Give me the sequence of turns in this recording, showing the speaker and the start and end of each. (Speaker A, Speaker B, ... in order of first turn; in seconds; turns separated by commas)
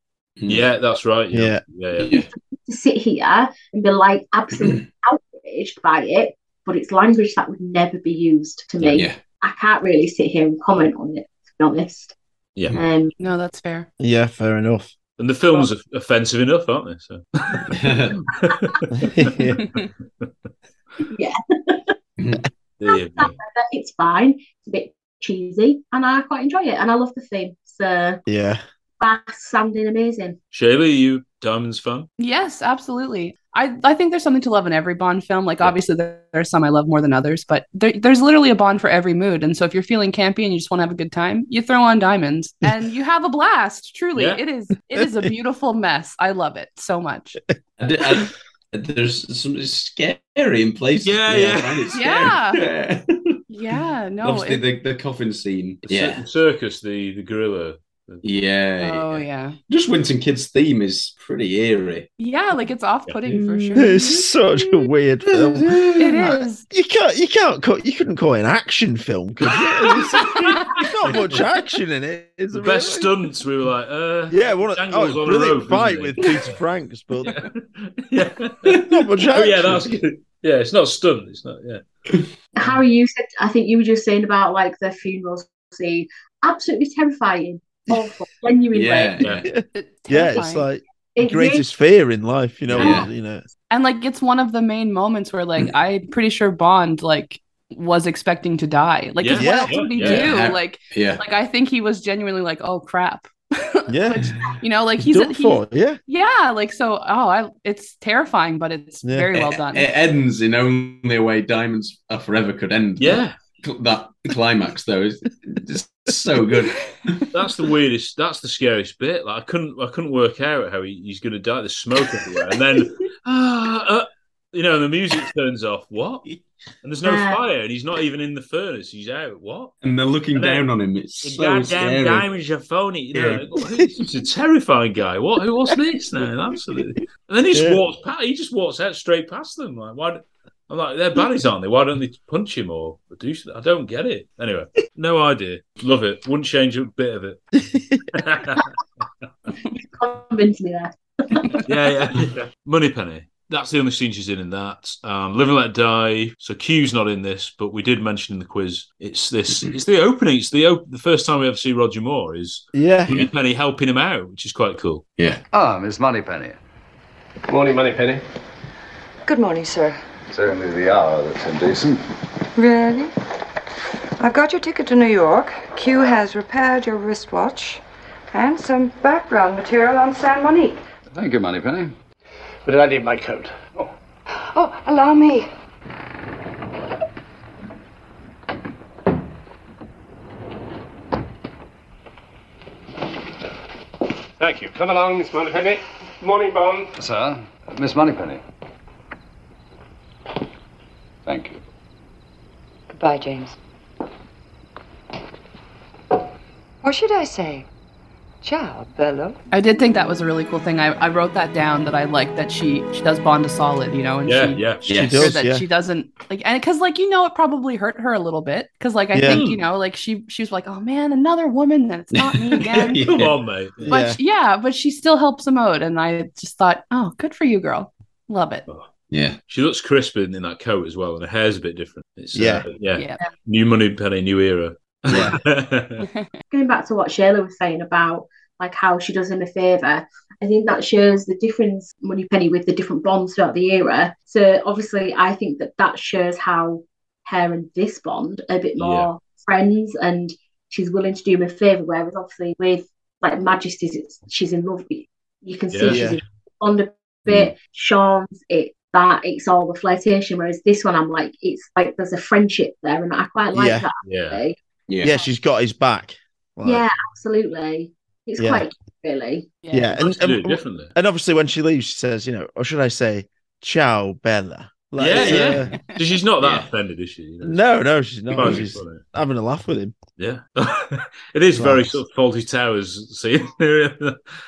Speaker A: 0.5-2.2, Speaker B: 1.3-1.6, Speaker C: 2.0-2.3, Speaker D: 2.5-12.1, Speaker C: 4.5-4.8, Speaker C: 8.9-9.2, Speaker D: 12.8-13.1, Speaker E: 13.2-13.9, Speaker B: 14.0-14.9, Speaker A: 15.2-19.3, Speaker C: 17.7-18.2, Speaker B: 18.9-19.7, Speaker D: 21.1-21.9, Speaker C: 22.2-22.5, Speaker A: 22.8-23.4, Speaker D: 22.9-28.2, Speaker B: 28.3-28.6, Speaker D: 29.0-30.4, Speaker A: 30.5-32.1, Speaker E: 32.2-47.4, Speaker A: 44.1-44.4, Speaker C: 47.8-53.4, Speaker A: 51.0-52.0, Speaker E: 51.9-52.6, Speaker E: 53.5-54.6, Speaker C: 54.2-56.2, Speaker A: 55.9-58.2, Speaker C: 58.2-62.1, Speaker E: 58.8-59.6, Speaker E: 62.2-64.3, Speaker C: 63.3-63.9, Speaker B: 63.8-73.1, Speaker C: 65.3-66.3, Speaker E: 66.0-66.7, Speaker A: 69.9-71.4, Speaker A: 72.5-76.3, Speaker B: 74.3-77.4, Speaker A: 77.3-81.8, Speaker B: 78.7-80.0, Speaker D: 82.6-89.2, Speaker C: 88.7-89.5, Speaker B: 89.5-93.4, Speaker E: 89.7-90.7, Speaker D: 91.2-91.6, Speaker A: 92.7-93.0, Speaker C: 92.8-93.1, Speaker E: 93.7-109.9, Speaker A: 99.2-100.3, Speaker B: 99.3-100.2, Speaker C: 100.0-101.2, Speaker B: 103.9-104.3, Speaker B: 105.0-106.0, Speaker B: 109.0-109.3, Speaker C: 109.3-117.2, Speaker A: 113.0-113.4, Speaker A: 117.3-126.3, Speaker A: 126.8-129.7, Speaker D: 127.0-127.4, Speaker C: 129.8-132.3, Speaker A: 130.3-130.7, Speaker A: 131.2-147.4, Speaker C: 133.1-133.4, Speaker B: 137.5-137.8, Speaker B: 147.6-148.0, Speaker A: 148.1-148.7, Speaker D: 149.7-151.6, Speaker A: 151.7-165.0, Speaker B: 162.7-163.1, Speaker F: 165.5-166.6, Speaker G: 167.5-168.2, Speaker H: 169.3-170.0, Speaker F: 170.3-172.1, Speaker H: 172.6-173.1, Speaker H: 174.2-180.8, Speaker F: 181.1-181.9, Speaker G: 182.7-183.7, Speaker H: 184.4-185.5, Speaker G: 194.4-196.9, Speaker F: 196.9-198.4, Speaker F: 201.3-201.6, Speaker H: 202.9-203.6, Speaker H: 206.8-207.7, Speaker H: 208.4-209.4, Speaker E: 209.5-223.1, Speaker A: 214.3-214.9, Speaker C: 214.9-215.3, Speaker B: 215.0-215.7, Speaker B: 219.1-219.4, Speaker A: 219.3-219.6, Speaker C: 222.1-223.3, Speaker A: 222.7-223.9, Speaker B: 223.9-224.2, Speaker E: 223.9-228.7, Speaker C: 229.1-229.4, Speaker A: 229.5-236.1, Speaker B: 232.3-232.7, Speaker E: 232.9-233.2, Speaker C: 235.1-235.4, Speaker E: 236.0-236.3, Speaker D: 236.5-264.6, Speaker A: 248.8-249.1, Speaker A: 255.7-256.0, Speaker B: 255.9-256.2, Speaker C: 257.3-257.5, Speaker B: 263.5-263.9, Speaker A: 264.0-264.4, Speaker C: 264.9-265.2, Speaker B: 265.0-266.9, Speaker D: 266.6-269.5, Speaker B: 268.4-268.7, Speaker E: 269.6-270.0, Speaker B: 269.7-275.7, Speaker A: 270.0-270.9, Speaker A: 275.0-277.6, Speaker C: 275.2-275.5, Speaker C: 276.4-276.7, Speaker B: 277.4-280.0, Speaker A: 278.3-279.0, Speaker A: 280.2-284.2, Speaker B: 281.6-282.0